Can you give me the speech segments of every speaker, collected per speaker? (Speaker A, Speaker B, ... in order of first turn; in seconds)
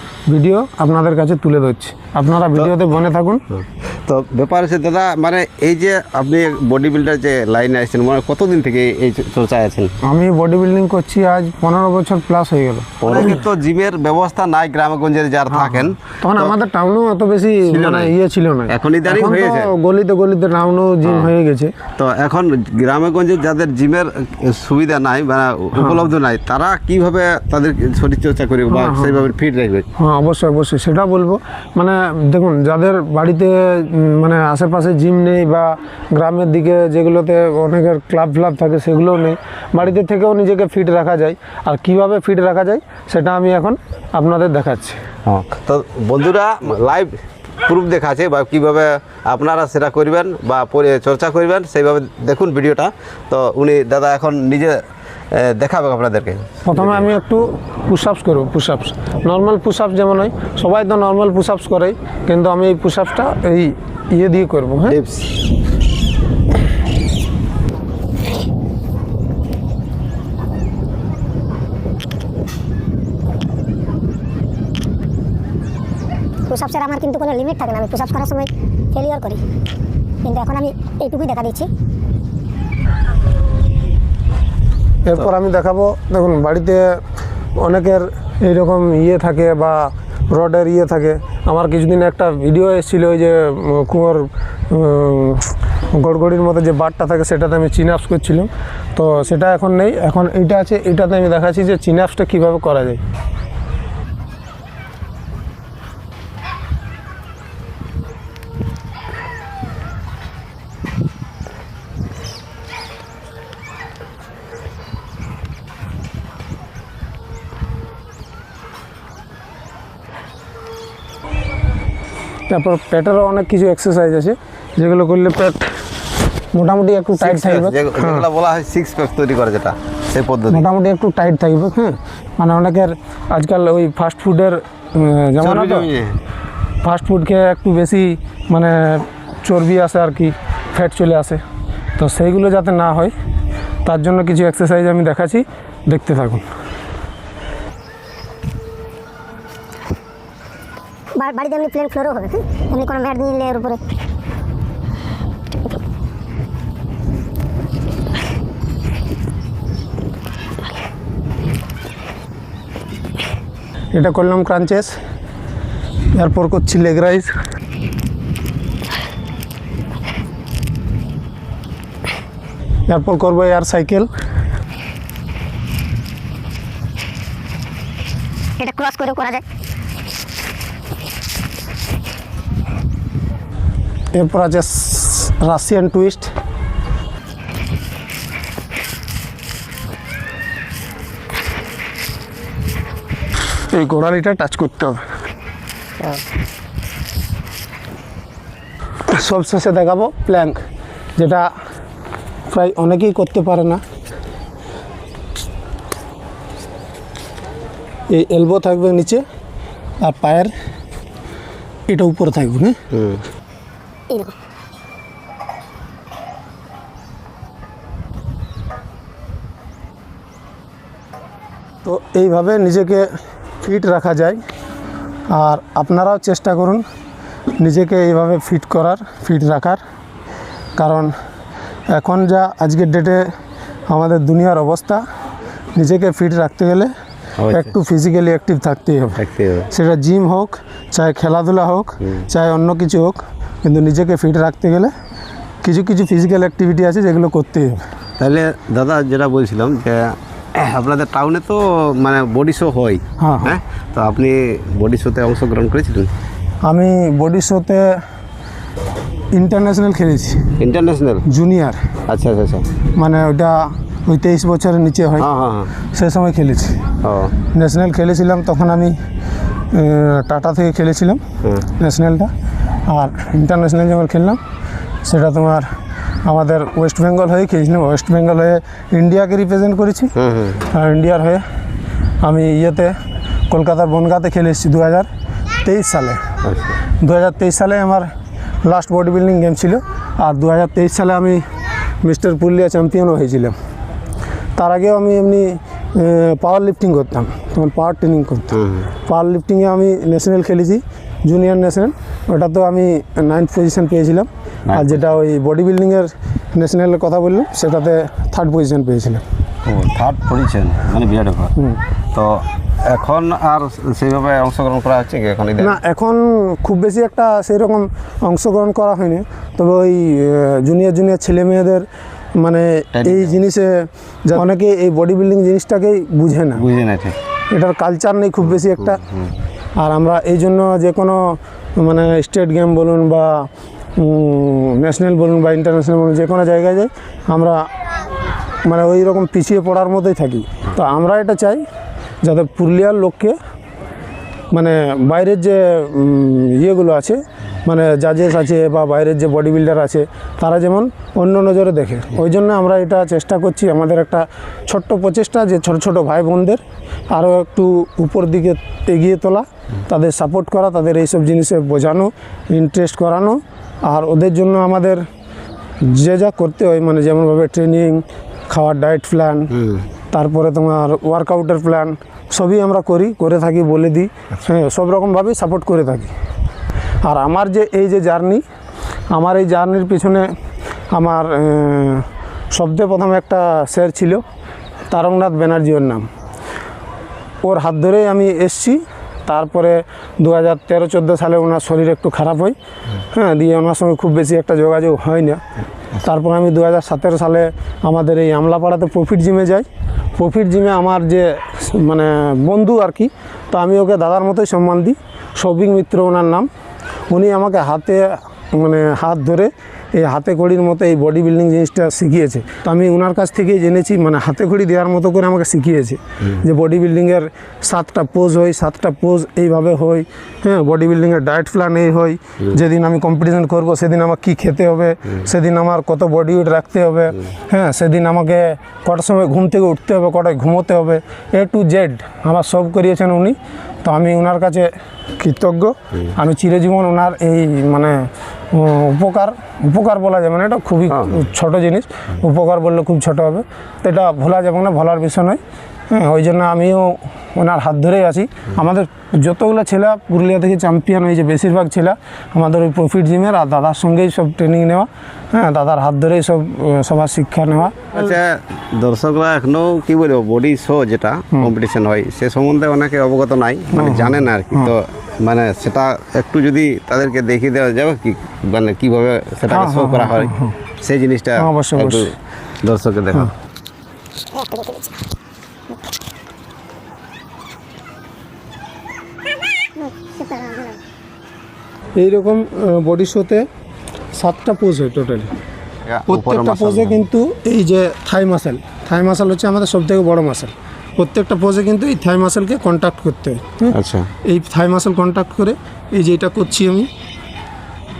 Speaker A: 0.3-3.4, 10.0-13.4, 15.5-21.7, 25.8-26.0, 28.7-29.3, 30.0-45.0, 56.6-65.0, 85.0-87.0, 87.5-103.0, 122.5-125.7, 126.5-128.2, 130.5-135.9, 136.8-141.4, 142.0-143.1, 143.8-146.4, 163.9-164.9, 166.1-167.3, 172.9-174.1, 184.1-186.3, 193.7-195.1, 199.1-200.6, 201.2-201.5, 202.5-203.8, 208.1-209.2, 210.0-210.5, 211.9-212.8, 221.8-224.4, 225.3-226.8, 227.6-229.8, 230.7-231.1, 231.9-233.3, 233.9-235.0, 235.7-236.9, 237.5-244.9, 245.6-247.8, 253.2-253.6, 256.6-258.0, 259.3-260.5, 261.2-261.9, 262.9-265.3, 265.9-266.8, 267.5-268.9, 269.7-272.3, 272.8-274.4, 275.0-275.7, 276.2-280.1, 280.6-281.4, 282.2-283.0, 283.5-285.1, 285.6-286.2, 286.9-288.1, 288.6-291.4, 292.0-293.5, 294.6-309.2, 311.5-311.8, 315.6-326.6, 327.5-329.0, 329.8-337.7, 338.6-341.6, 342.2-343.4, 344.5-365.0, 365.8-369.5, 370.1-376.1, 377.0-378.4, 379.1-380.3, 380.9-384.2, 384.9-386.1, 387.4-392.6, 393.1-395.4, 396.0-406.5, 407.1-458.1, 463.7-464.7, 469.5-470.6, 471.4-472.1, 481.9-483.5, 484.1-485.3, 486.1-496.9
Speaker B: 3.5-9.9, 13.0-16.6, 17.6-18.1, 18.7-19.7, 21.0-21.3, 21.9-29.9, 45.2-57.1, 64.8-65.3, 127.2-130.7, 135.4-136.2, 212.9-213.2, 237.4-237.7, 239.2-239.7, 248.2-256.1, 260.6-261.2, 262.1-262.6, 265.2-265.7, 267.0-267.3, 271.4-271.7, 280.1-280.6, 286.4-286.8, 298.5-298.9, 304.7-305.0, 309.6-311.5, 312.1-315.8, 322.9-323.4, 326.5-327.1, 328.4-329.1, 440.9-441.2, 457.9-472.1, 472.6-473.3, 485.8-487.0, 493.7-494.1
Speaker C: 76.5-79.4, 80.2-81.7, 151.2-153.8, 178.6-179.4, 474.3-474.9, 479.8-480.8